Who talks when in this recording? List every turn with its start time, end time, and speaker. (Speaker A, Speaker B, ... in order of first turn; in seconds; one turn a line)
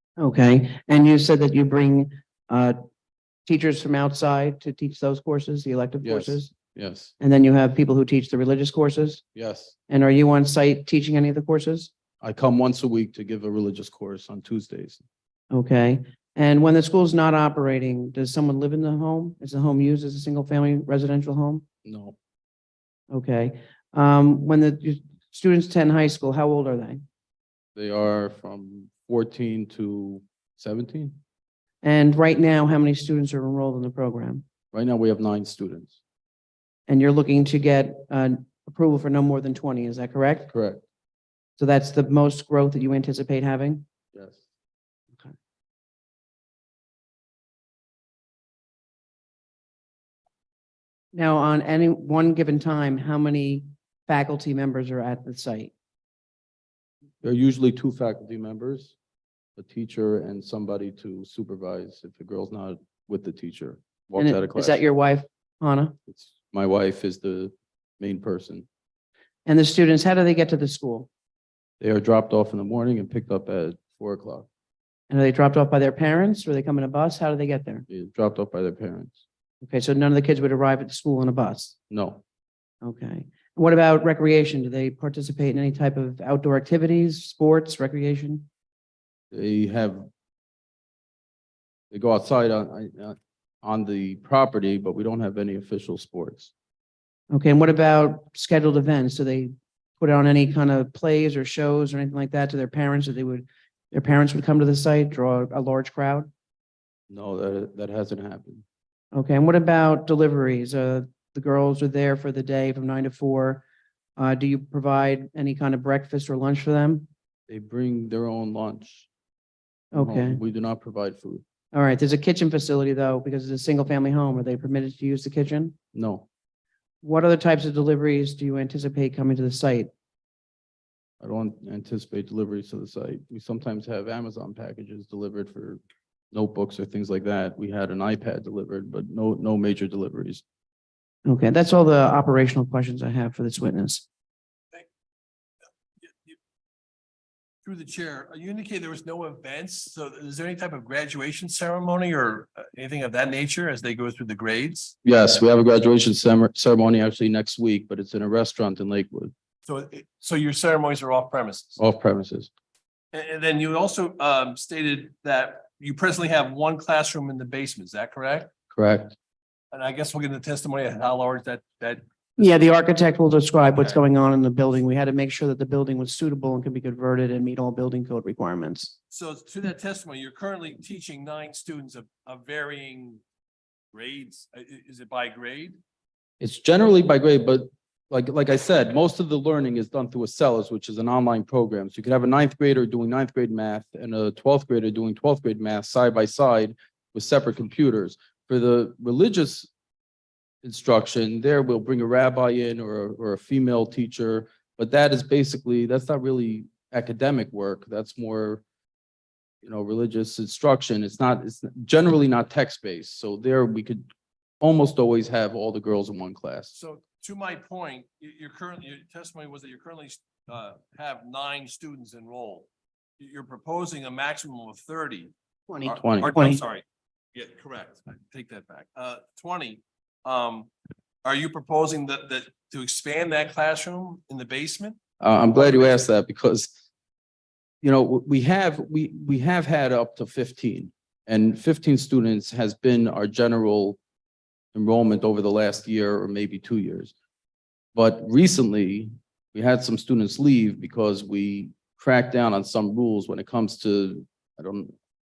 Speaker A: 0.2-2.8
Speaker A: 3.5-6.5
Speaker B: 6.0-7.1
Speaker A: 7.2-9.2
Speaker B: 9.3-9.8
Speaker A: 9.9-11.9
Speaker B: 12.2-15.0
Speaker A: 15.5-21.6
Speaker B: 21.8-22.1
Speaker A: 23.1-27.0
Speaker B: 27.8-31.2
Speaker A: 31.8-34.5
Speaker B: 34.7-36.0
Speaker A: 36.9-40.5
Speaker B: 40.5-40.8
Speaker A: 41.6-43.8
Speaker B: 44.1-44.4
Speaker A: 51.1-55.7
Speaker B: 57.2-58.9
Speaker B: 59.6-64.8
Speaker A: 64.2-65.9
Speaker B: 66.1-68.7
Speaker A: 69.5-71.1
Speaker B: 71.8-74.5
Speaker A: 75.1-77.8
Speaker B: 77.9-79.2
Speaker A: 79.6-81.7
Speaker B: 81.9-82.2
Speaker A: 82.8-88.5
Speaker B: 89.3-90.0
Speaker B: 91.9-96.5
Speaker A: 97.3-106.3
Speaker B: 107.1-108.6
Speaker A: 109.1-113.6
Speaker A: 114.2-117.1
Speaker B: 117.5-119.1
Speaker A: 119.9-120.4
Speaker B: 119.9-121.4
Speaker A: 121.7-125.8
Speaker B: 125.9-126.2
Speaker A: 127.0-129.9
Speaker B: 131.2-135.8
Speaker B: 136.3-140.4
Speaker A: 141.2-144.1
Speaker C: 146.0-146.3
Speaker C: 147.6-154.9
Speaker B: 155.0-159.3
Speaker C: 159.7-161.8
Speaker B: 161.8-162.5
Speaker C: 163.1-168.5
Speaker B: 168.7-169.2
Speaker C: 169.7-172.0
Speaker A: 172.4-178.9
Speaker C: 179.1-183.2
Speaker C: 183.9-185.8
Speaker B: 186.4-199.7
Speaker B: 200.6-208.6
Speaker B: 209.6-214.0
Speaker B: 214.6-216.7
Speaker C: 216.7-222.7
Speaker C: 223.2-225.3
Speaker A: 225.7-226.6
Speaker C: 225.8-230.7
Speaker B: 226.0-226.3
Speaker C: 231.2-235.0
Speaker B: 235.2-236.7
Speaker C: 235.5-236.1
Speaker B: 237.8-244.0
Speaker B: 244.7-247.1
Speaker B: 247.9-254.9